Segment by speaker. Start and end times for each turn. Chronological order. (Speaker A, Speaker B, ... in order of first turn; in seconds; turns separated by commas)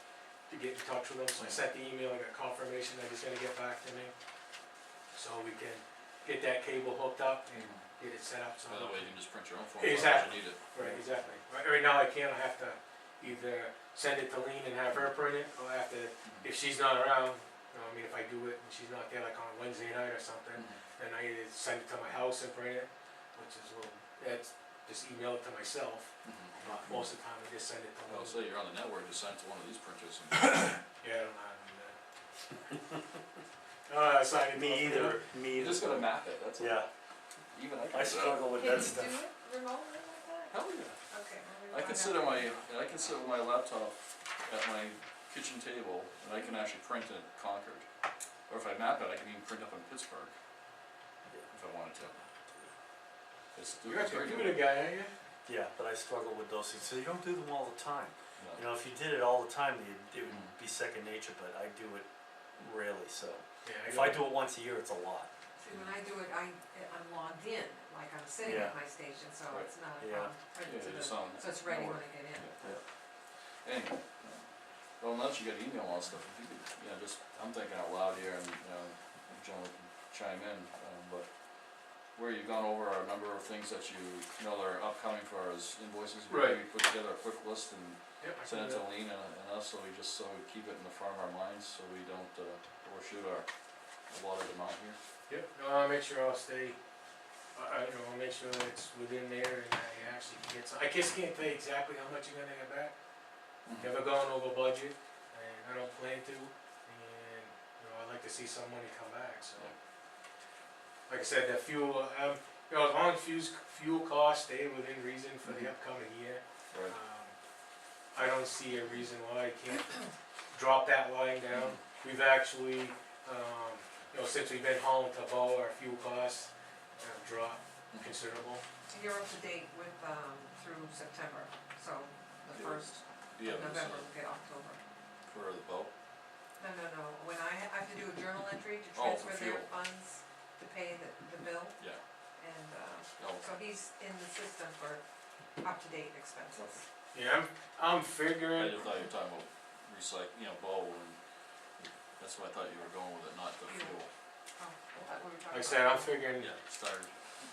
Speaker A: 0.5-4.1, Speaker B: 1.3-1.6, Speaker A: 5.1-9.1, Speaker B: 7.5-7.8, Speaker B: 8.7-10.6, Speaker A: 9.8-28.4, Speaker C: 10.8-11.0, Speaker B: 26.2-26.6, Speaker B: 28.1-30.8, Speaker A: 31.0-32.0, Speaker A: 33.9-35.2, Speaker C: 34.5-36.9, Speaker B: 35.5-36.8, Speaker B: 37.5-38.7, Speaker C: 37.9-39.2, Speaker D: 38.5-40.5, Speaker B: 40.5-41.0, Speaker D: 41.1-42.5, Speaker B: 41.7-47.8, Speaker B: 48.5-50.3, Speaker B: 51.5-52.2, Speaker B: 53.5-54.6, Speaker A: 53.8-55.1, Speaker C: 55.5-65.3, Speaker B: 60.2-60.5, Speaker A: 63.6-64.3, Speaker D: 65.6-72.5, Speaker B: 65.7-65.9, Speaker C: 68.4-68.8, Speaker C: 70.0-70.3, Speaker B: 70.6-72.5, Speaker B: 73.6-74.4, Speaker B: 75.0-81.3, Speaker B: 82.1-93.5, Speaker A: 86.3-86.6, Speaker A: 88.2-88.8, Speaker B: 94.1-95.0, Speaker A: 95.3-96.8, Speaker A: 97.5-102.9, Speaker B: 103.7-103.9, Speaker A: 103.8-109.7, Speaker A: 111.1-117.3, Speaker A: 118.1-128.6, Speaker D: 128.9-134.8, Speaker B: 132.5-134.1, Speaker B: 135.3-135.9, Speaker D: 136.6-141.8, Speaker B: 138.9-139.7, Speaker D: 142.4-145.0, Speaker B: 143.2-143.4, Speaker D: 145.6-146.8, Speaker A: 147.1-148.8, Speaker B: 148.5-151.2, Speaker B: 152.2-154.1, Speaker D: 153.7-153.9, Speaker D: 154.6-156.3, Speaker A: 155.5-156.5, Speaker B: 156.4-157.1